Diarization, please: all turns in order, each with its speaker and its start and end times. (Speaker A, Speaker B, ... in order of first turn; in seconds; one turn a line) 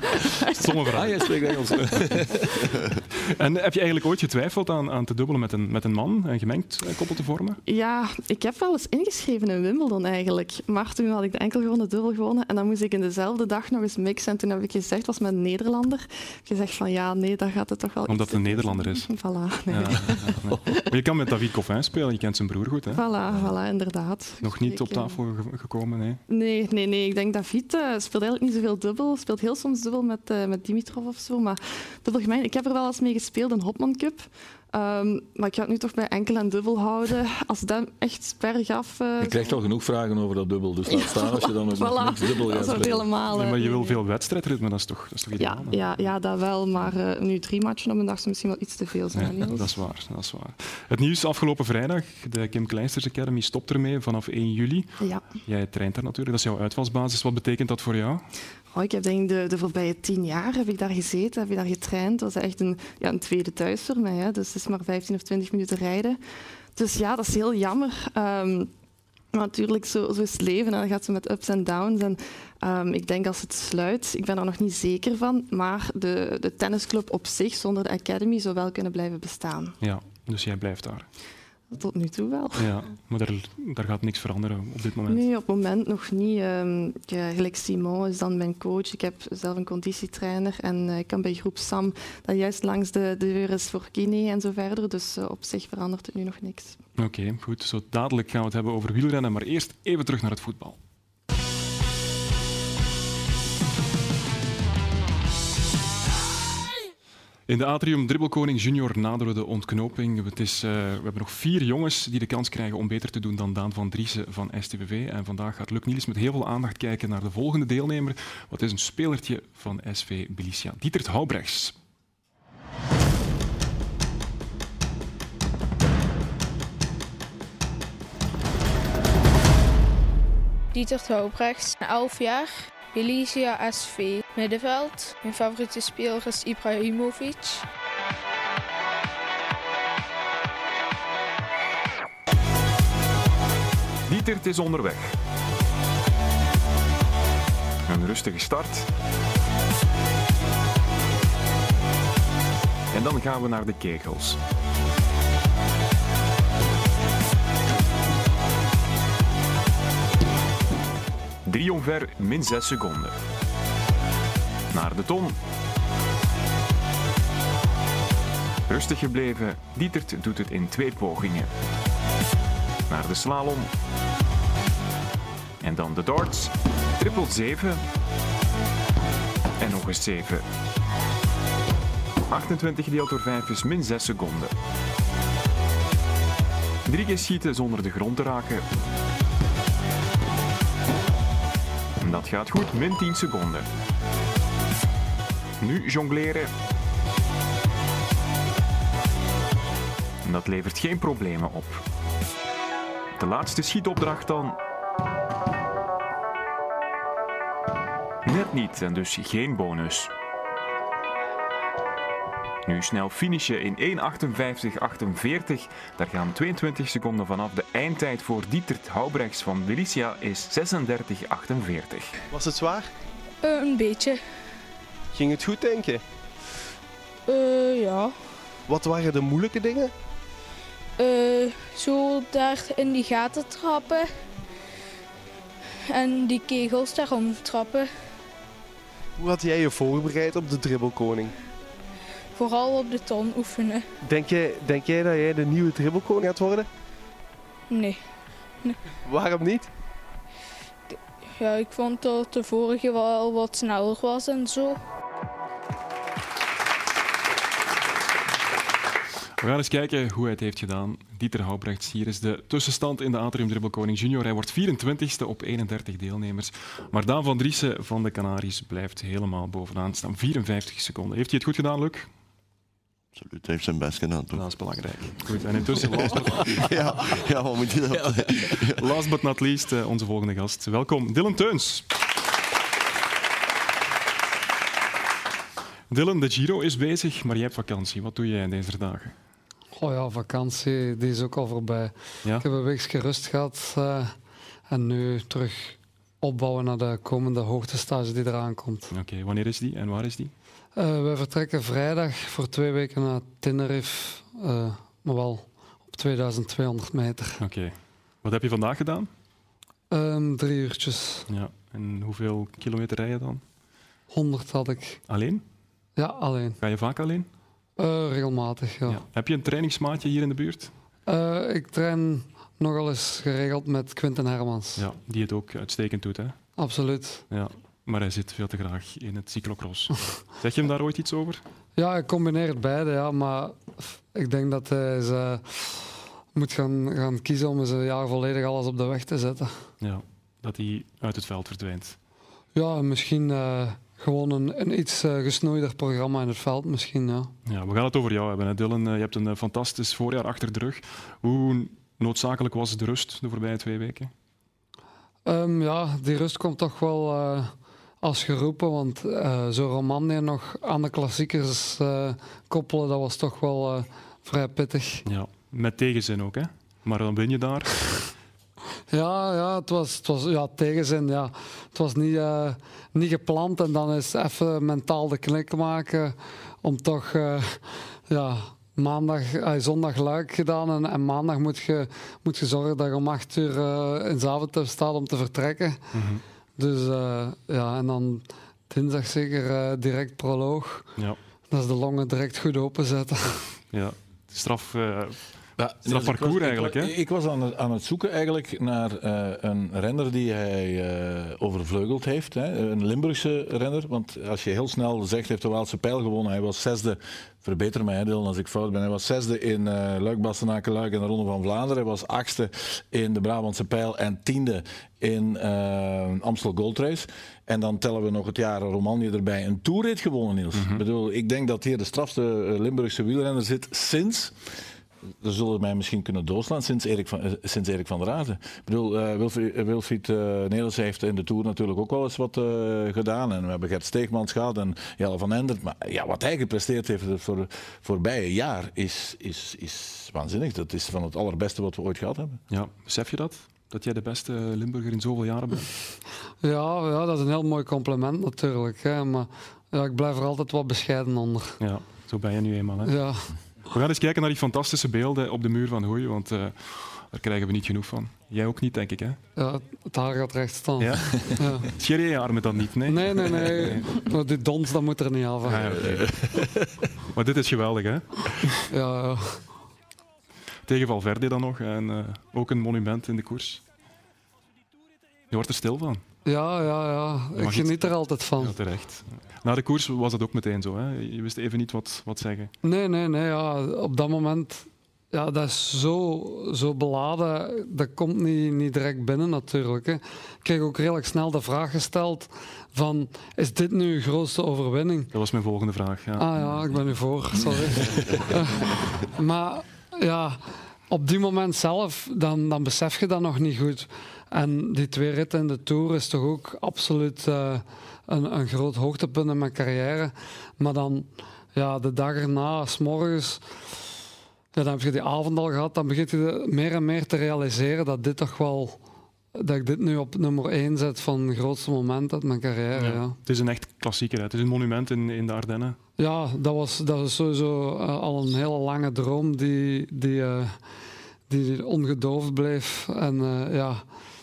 Speaker A: 0.2-0.6
Speaker B: 0.5-1.4
Speaker C: 0.9-2.3
Speaker B: 3.3-7.6
Speaker A: 7.7-20.9
Speaker B: 18.1-19.1
Speaker B: 19.7-23.0
Speaker A: 22.9-25.2
Speaker B: 24.4-26.2
Speaker A: 26.3-39.6
Speaker C: 39.2-43.1
Speaker A: 40.9-44.0
Speaker B: 43.3-45.8
Speaker A: 45.4-49.7
Speaker B: 49.1-54.9
Speaker B: 55.5-58.2
Speaker A: 58.7-66.2
Speaker A: 66.8-68.7
Speaker A: 69.3-79.8
Speaker B: 79.8-81.1
Speaker A: 81.7-82.7
Speaker B: 82.6-85.2
Speaker A: 85.1-96.8
Speaker B: 97.0-100.8
Speaker B: 107.5-121.8
Speaker D: 130.7-137.6
Speaker E: 144.1-145.1
Speaker E: 147.9-148.9
Speaker E: 152.9-154.4
Speaker E: 161.4-163.2
Speaker E: 164.7-165.4
Speaker E: 168.7-171.5
Speaker E: 172.9-173.7
Speaker E: 175.6-177.8
Speaker E: 179.6-180.4
Speaker E: 182.3-184.5
Speaker E: 186.8-188.7
Speaker E: 192.0-193.7
Speaker E: 195.6-196.5
Speaker E: 200.2-201.8
Speaker E: 203.2-204.6
Speaker E: 208.2-210.1
Speaker E: 212.7-222.1
Speaker F: 222.3-222.9
Speaker D: 223.4-224.2
Speaker F: 225.1-226.0
Speaker D: 227.3-228.2
Speaker F: 228.7-229.9
Speaker D: 231.0-234.1
Speaker D: 235.9-237.9
Speaker F: 239.2-241.3
Speaker D: 242.3-243.8
Speaker F: 244.0-246.7
Speaker D: 247.7-248.8
Speaker F: 249.1-249.7
Speaker D: 250.9-254.8
Speaker B: 259.4-272.1
Speaker G: 273.1-274.4
Speaker B: 274.3-276.7
Speaker G: 276.4-278.8
Speaker B: 278.8-281.9
Speaker B: 285.9-289.1
Speaker H: 289.8-294.2
Speaker H: 294.7-298.9
Speaker B: 298.9-300.3
Speaker H: 300.8-307.4
Speaker B: 307.4-309.1
Speaker H: 309.9-311.3
Speaker B: 311.3-313.4
Speaker H: 314.1-315.0
Speaker B: 315.1-315.4
Speaker H: 316.0-316.6
Speaker B: 316.6-317.3
Speaker H: 317.8-319.0
Speaker B: 318.9-320.7
Speaker H: 321.1-324.8
Speaker B: 324.8-326.4
Speaker H: 326.6-327.2
Speaker B: 327.3-331.4
Speaker H: 331.8-339.5
Speaker B: 339.8-342.0
Speaker H: 342.6-347.3
Speaker B: 347.5-354.1
Speaker H: 355.3-365.1
Speaker B: 365.1-368.1
Speaker H: 368.9-385.9
Speaker B: 385.9-386.2
Speaker H: 386.6-390.9
Speaker H: 391.5-393.5
Speaker B: 393.7-396.9
Speaker C: 395.6-424.6
Speaker B: 420.5-420.8
Speaker C: 425.2-442.4
Speaker B: 442.5-445.7
Speaker H: 446.4-451.6
Speaker B: 451.6-453.0
Speaker H: 452.8-453.4
Speaker B: 453.7-459.2
Speaker H: 459.4-461.7
Speaker B: 460.8-463.9
Speaker H: 462.9-465.8
Speaker B: 465.4-466.5
Speaker C: 465.8-466.6
Speaker B: 467.1-468.5
Speaker H: 468.7-469.5
Speaker B: 470.7-473.6
Speaker B: 475.3-476.0
Speaker H: 476.2-478.6
Speaker B: 477.4-482.5
Speaker H: 482.6-495.1
Speaker B: 495.1-496.3
Speaker H: 496.2-513.5
Speaker C: 497.6-498.1
Speaker H: 514.5-518.8
Speaker H: 519.4-523.2
Speaker B: 522.8-525.8
Speaker H: 526.0-530.6
Speaker H: 531.3-533.9